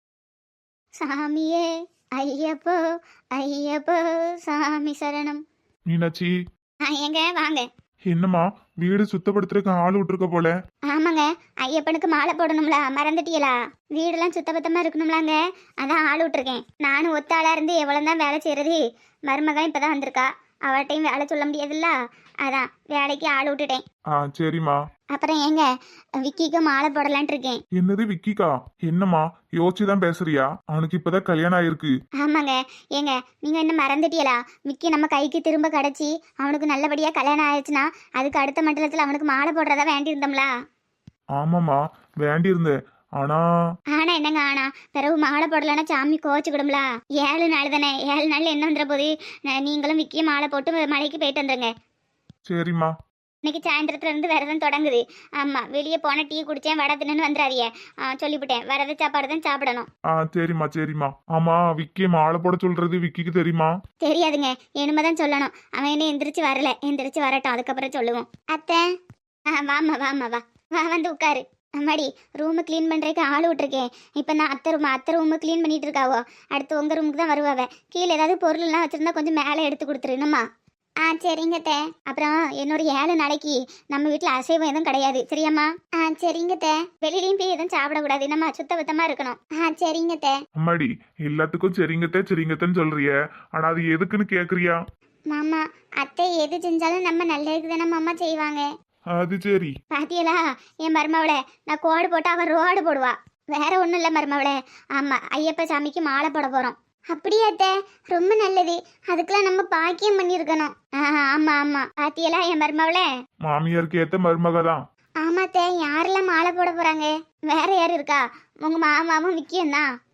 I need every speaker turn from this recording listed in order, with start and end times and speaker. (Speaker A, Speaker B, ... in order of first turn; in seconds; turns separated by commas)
Speaker A: 1.0-2.8, Speaker A: 3.4-5.4, Speaker B: 5.9-6.3, Speaker A: 6.9-7.7, Speaker B: 8.1-10.5, Speaker A: 10.9-23.8, Speaker B: 24.1-24.8, Speaker A: 25.1-25.7, Speaker A: 26.2-27.6, Speaker B: 27.8-31.9, Speaker A: 32.2-40.5, Speaker B: 41.4-43.4, Speaker A: 43.9-51.7, Speaker B: 52.5-52.9, Speaker A: 53.5-59.9, Speaker B: 60.2-63.7, Speaker A: 64.0-68.8, Speaker A: 69.5-80.4, Speaker A: 81.0-90.4, Speaker B: 90.6-94.8, Speaker A: 95.3-98.7, Speaker B: 99.2-99.7, Speaker A: 99.9-113.1, Speaker B: 113.5-114.8, Speaker A: 115.2-119.9